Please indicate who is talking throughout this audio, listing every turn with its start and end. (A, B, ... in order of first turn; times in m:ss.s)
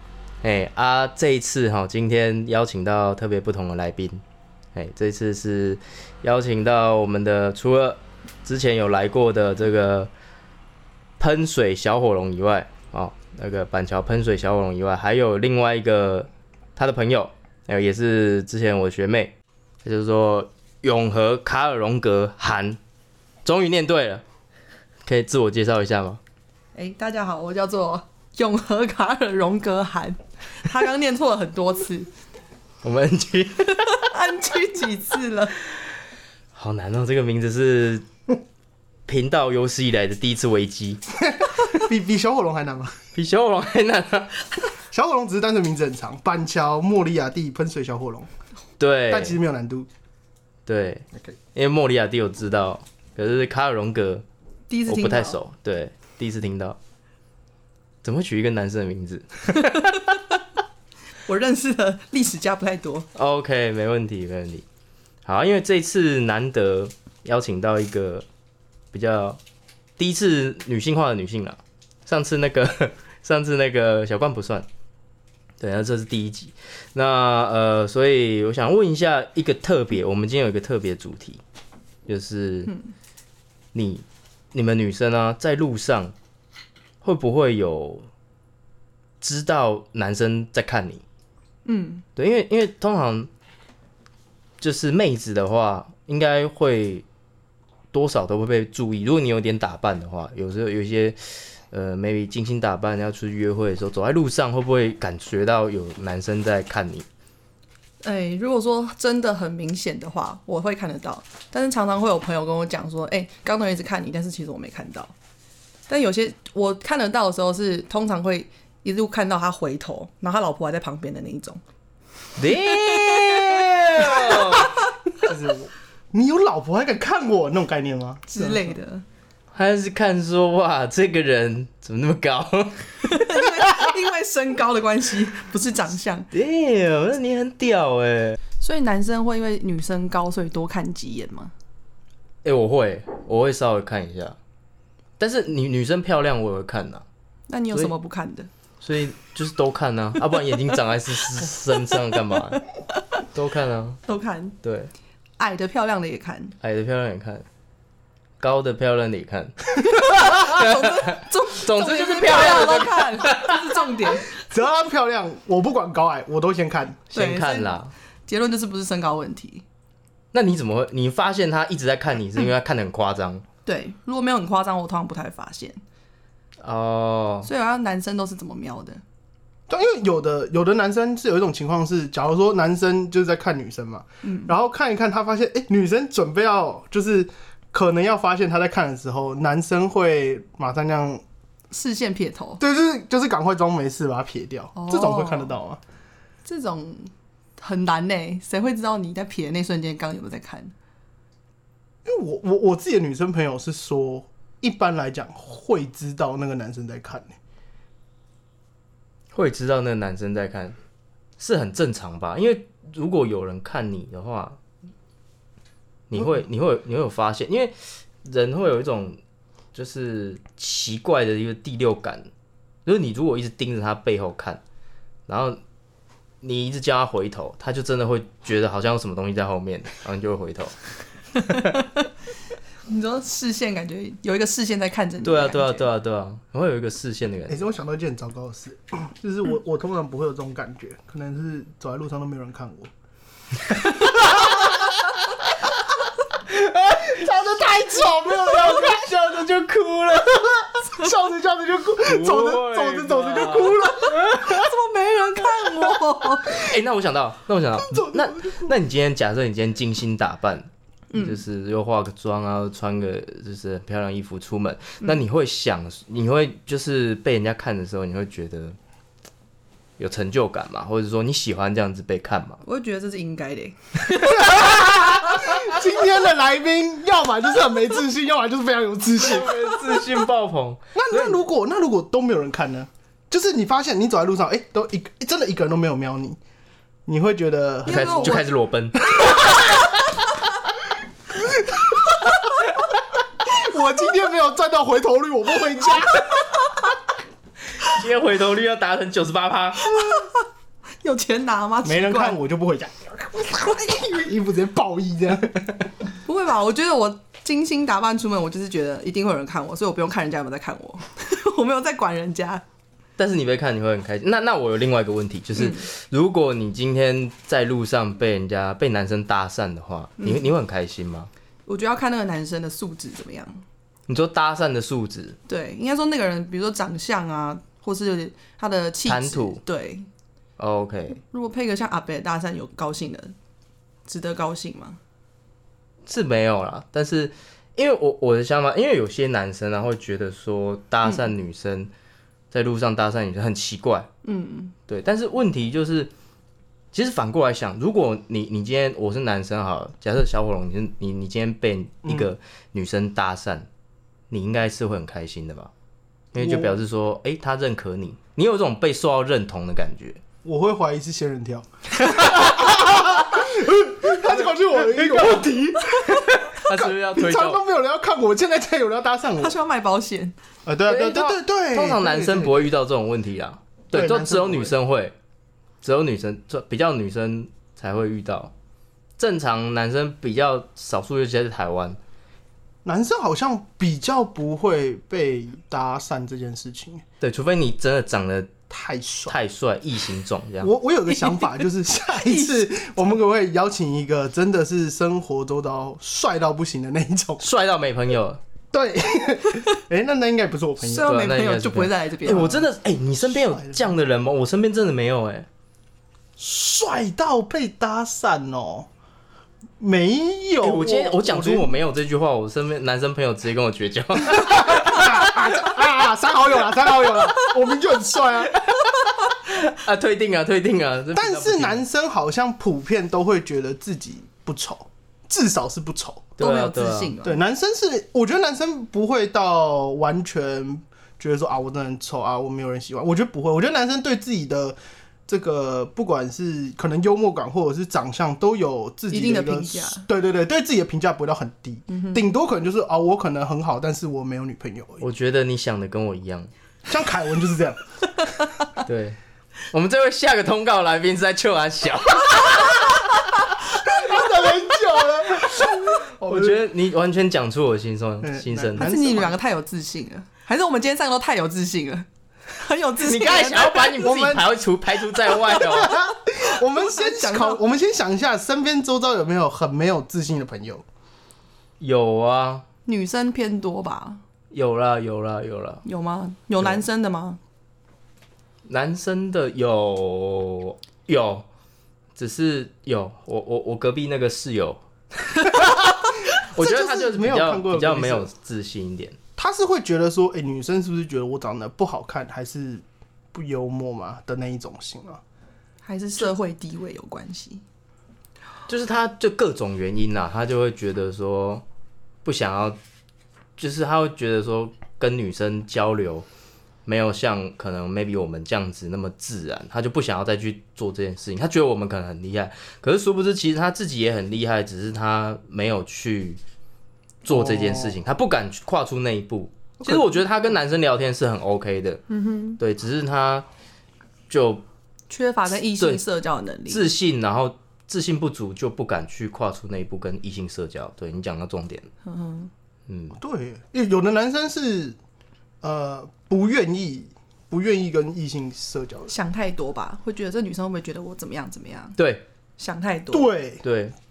0:00.4-0:04.2 A
0:04.7-0:10.1 A
0:11.2-0:19.3 A
0:19.8-0:22.8 A
0:23.4-0:24.2 A
0:25.0-0:26.2 A
0:26.7-0:32.1 B
0:32.8-0:34.0 A
0:33.8-0:35.6 B
0:36.5-0:38.0 A
0:39.0-0:41.0 A
0:41.2-0:43.0 C
0:43.1-0:44.5 A
0:44.9-0:48.3 C
0:48.8-0:49.4 A
0:49.1-0:49.9 C
0:50.6-0:54.2 A
0:54.7-0:55.4 B
0:54.9-0:56.8 A
0:58.0-1:00.1 A
0:59.9-1:00.1 B
1:01.2-1:03.1 B
1:03.1-1:04.6 A
1:05.2-1:08.2 A
1:08.9-1:09.4 A
1:10.0-1:14.7 A
1:15.6-1:21.4 A
1:22.1-1:22.7 A
1:23.7-1:26.1 A
1:27.0-1:28.1 A
1:29.2-1:31.0 A
1:31.6-1:32.0 B
1:32.2-1:33.3 A
1:34.6-1:37.0 A
1:37.9-1:47.0 A
1:48.0-1:55.1 B
1:55.9-2:01.6 B
2:02.4-2:04.7 A
2:02.6-2:04.9 B
2:05.2-2:08.7 C
2:08.3-2:09.0 B
2:09.5-2:13.9 A
2:13.0-2:16.3 B
2:16.3-2:18.4 A
2:18.6-2:21.5 B
2:22.4-2:24.4 A
2:25.2-2:27.0 A
2:27.5-2:28.5 B
2:28.8-2:32.6 A
2:32.5-2:33.2 B
2:33.3-2:34.0 A
2:34.1-2:34.6 B
2:34.6-2:34.9 A
2:35.4-2:36.6 B
2:36.6-2:37.4 A
2:38.4-2:43.9 A
2:39.8-2:44.3 B
2:44.4-2:47.1 C
2:47.1-2:47.9 A
2:47.1-2:49.6 B
2:50.3-2:53.4 A
2:53.6-2:55.8 B
2:56.6-2:57.5 A
2:57.4-2:59.0 B
2:59.7-3:11.2 C
3:04.2-3:04.5 B
3:11.7-3:12.6 B
3:12.6-3:15.8 C
3:14.7-3:15.5 B
3:16.4-3:20.7 B
3:22.0-3:27.4 C
3:29.3-3:30.8 A
3:31.4-3:34.6 A
3:36.1-3:39.2 A
3:39.7-3:42.3 A
3:42.8-3:44.6 A
3:45.3-3:45.6 A
3:46.4-3:50.7 A
3:51.4-3:51.8 B
3:51.4-3:51.8 A
3:52.9-3:55.9 B
3:55.2-3:57.6 A
3:57.5-4:02.9 C
4:03.7-4:04.9 C
4:06.5-4:09.5 C
4:08.4-4:10.6 A
4:10.9-4:14.3 C
4:12.0-4:14.6 A
4:14.0-4:16.6 B
4:16.5-4:28.8 A
4:17.8-4:18.7 C
4:21.1-4:21.4 B
4:30.0-4:32.6 A
4:32.6-4:35.0 B
4:34.2-4:40.0 C
4:39.2-4:41.4 A
4:40.9-4:46.4 C
4:47.0-4:48.4 C
4:47.9-4:48.4 B
4:47.9-4:49.4 A
4:51.4-4:51.9 C
4:53.4-4:56.5 C
4:57.8-5:00.0 A
4:59.9-5:00.4 B
5:01.0-5:02.4 B
5:01.8-5:05.8 C
5:06.2-5:12.6 B
5:13.2-5:21.3 A
5:15.6-5:15.9 B
5:20.2-5:20.5 B
5:21.6-5:23.6 B
5:24.1-5:25.4 A
5:25.5-5:30.1 B
5:29.0-5:29.6 A
5:30.6-5:31.2 A
5:31.2-5:33.3 B
5:34.1-5:35.0 B
5:36.0-5:41.9 A
5:42.5-5:44.1 A
5:44.2-5:44.7 B
5:44.9-5:46.1 A
5:46.9-5:53.7 A
5:52.0-5:52.3 C
5:54.3-5:55.7 A
5:56.3-6:00.2 A
5:56.4-5:56.8 C
6:00.4-6:09.6 C
6:04.1-6:05.5 A
6:06.5-6:07.6 A
6:09.4-6:10.4 B
6:10.6-6:12.7 C
6:10.9-6:15.1 A
6:13.9-6:14.7 C
6:15.8-6:18.5 A
6:19.2-6:22.0 A
6:22.8-6:27.0 C
6:27.2-6:28.6 A
6:28.7-6:29.4 C
6:29.3-6:30.7 A
6:30.6-6:37.4 C
6:32.1-6:32.8 B
6:37.4-6:38.4 A
6:38.7-6:41.1 C
6:40.8-6:42.6 B
6:41.0-6:45.5 A
6:43.3-6:44.0 C
6:46.4-6:48.9 C
6:49.8-6:51.7 C
6:50.6-6:55.5 A
6:54.3-6:58.7 C
6:58.7-7:01.8 A
7:01.1-7:06.3 C
7:06.4-7:07.2 A
7:06.4-7:07.4 B
7:07.2-7:25.0 C
7:19.1-7:20.0 B
7:21.9-7:22.2 B
7:25.0-7:26.5 A
7:26.9-7:27.8 C
7:28.8-7:29.2 A
7:29.7-7:33.1 A
7:33.8-7:36.6 C
7:36.2-7:38.9 A
7:38.2-7:39.4 C
7:38.8-7:44.4 B
7:43.0-7:46.0 A
7:44.0-7:44.5 C
7:45.5-7:50.8 C
7:46.4-7:47.6 B
7:51.8-7:52.6 A
7:52.8-7:54.2 B
7:54.5-7:55.8 A
7:55.8-7:57.4 B
7:58.6-8:01.4 A
8:02.2-8:04.8 A
8:05.3-8:05.7 A
8:05.5-8:08.3 C
8:06.2-8:09.2 A
8:09.4-8:15.2 C
8:15.8-8:17.6 B
8:18.7-8:21.6 A
8:22.2-8:22.8 A
8:23.6-8:26.2 A
8:26.8-8:36.4 A
8:37.2-8:42.0 A
8:37.2-8:38.0 C
8:39.8-8:40.2 C
8:42.1-8:42.6 B
8:42.6-8:43.4 A
8:44.3-8:44.6 A
8:45.1-8:46.9 B
8:45.8-8:46.0 A
8:46.7-8:51.9 A
8:52.0-8:52.5 B
8:52.9-8:53.2 A
8:53.2-8:55.0 C
8:55.6-8:59.1 C
8:59.1-9:02.0 B
9:02.0-9:02.2 A
9:02.6-9:03.3 B
9:03.1-9:03.6 C
9:03.6-9:03.9 A